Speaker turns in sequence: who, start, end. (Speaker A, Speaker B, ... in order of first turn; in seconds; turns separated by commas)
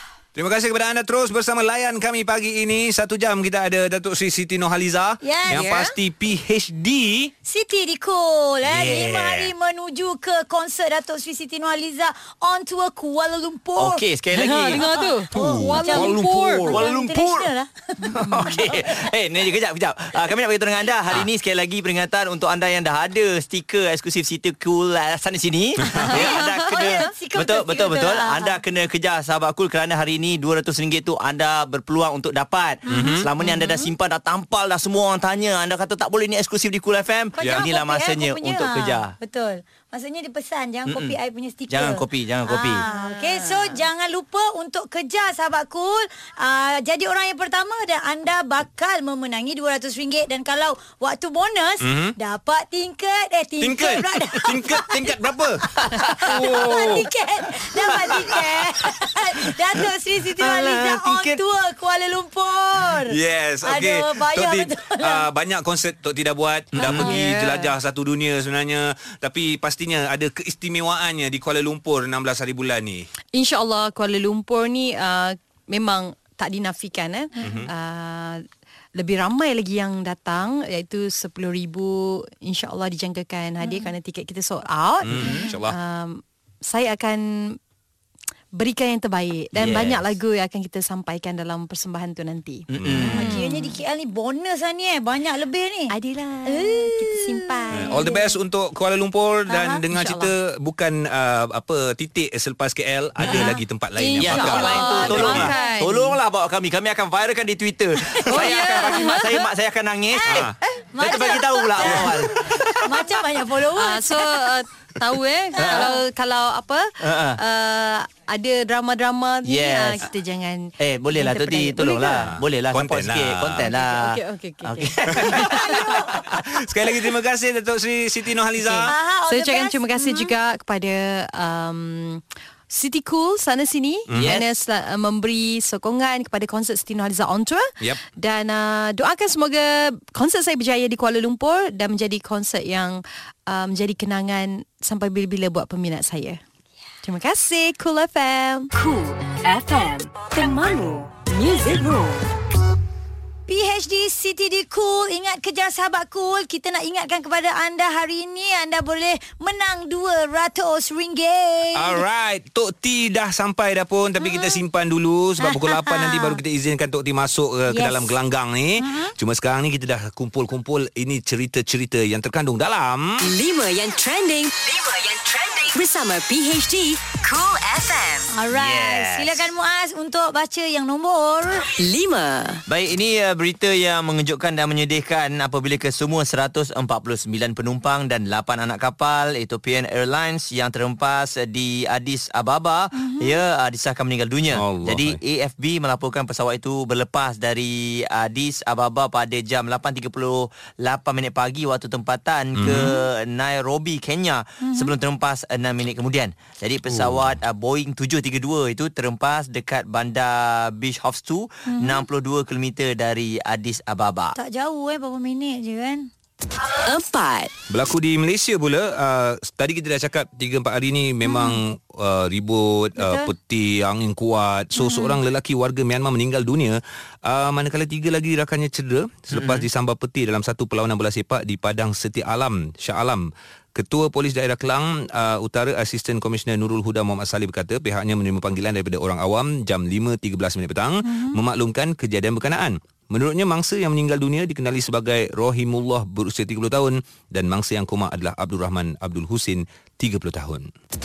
Speaker A: 0.3-7.3, Speaker B: 5.2-5.7, Speaker C: 5.5-5.9, Speaker B: 7.5-14.0, Speaker D: 8.6-9.5, Speaker D: 13.8-14.8, Speaker C: 14.3-16.9, Speaker B: 14.7-18.4, Speaker A: 15.3-16.6, Speaker D: 16.6-17.5, Speaker D: 18.1-39.1, Speaker C: 18.2-18.5, Speaker A: 25.8-26.2, Speaker B: 26.1-28.6, Speaker C: 26.1-26.9, Speaker A: 32.9-33.3, Speaker B: 32.9-33.7, Speaker B: 37.4-55.1, Speaker D: 40.9-41.1, Speaker D: 41.7-42.9, Speaker C: 42.9-43.7, Speaker A: 51.8-52.1, Speaker A: 53.6-57.1, Speaker B: 55.9-65.3, Speaker D: 60.4-61.4, Speaker A: 63.1-73.1, Speaker C: 66.8-67.7, Speaker D: 66.8-67.1, Speaker C: 73.3-78.4, Speaker A: 77.4-77.7, Speaker C: 78.9-87.6, Speaker A: 85.0-85.8, Speaker C: 88.5-93.8, Speaker D: 89.5-90.0, Speaker D: 92.7-93.4, Speaker A: 92.8-93.2, Speaker B: 93.0-95.9, Speaker C: 95.9-98.2, Speaker B: 96.5-98.1, Speaker A: 97.7-105.5, Speaker B: 99.5-99.8, Speaker C: 99.9-100.3, Speaker D: 103.2-103.5, Speaker C: 103.2-106.2, Speaker D: 104.2-112.7, Speaker B: 104.6-105.7, Speaker C: 108.3-109.4, Speaker B: 110.1-112.2, Speaker A: 110.3-110.5, Speaker B: 112.8-114.3, Speaker C: 113.7-122.3, Speaker D: 115.5-115.9, Speaker B: 115.6-116.0, Speaker D: 117.0-117.4, Speaker D: 119.4-120.0, Speaker D: 120.8-126.0, Speaker A: 122.3-123.7, Speaker C: 123.6-126.0, Speaker A: 125.2-125.5, Speaker B: 125.3-126.0, Speaker A: 126.3-128.9, Speaker B: 128.9-130.3, Speaker C: 129.3-146.4, Speaker A: 134.1-134.4, Speaker D: 134.1-134.4, Speaker C: 147.0-148.7, Speaker E: 148.7-152.3, Speaker B: 153.5-162.0, Speaker A: 161.7-173.2, Speaker B: 164.2-164.6, Speaker B: 165.4-166.4, Speaker B: 167.7-168.2, Speaker B: 168.8-169.1, Speaker E: 173.2-178.3, Speaker B: 178.3-181.7, Speaker D: 178.5-179.5, Speaker E: 181.7-182.6, Speaker D: 182.7-214.3, Speaker A: 194.5-195.2, Speaker A: 202.6-202.9, Speaker B: 204.6-204.9, Speaker A: 206.9-207.1, Speaker B: 211.7-212.0, Speaker B: 214.3-216.1, Speaker E: 216.8-217.5, Speaker A: 217.7-250.7, Speaker B: 221.2-221.6, Speaker B: 223.0-223.3, Speaker B: 224.8-225.2, Speaker D: 229.3-229.7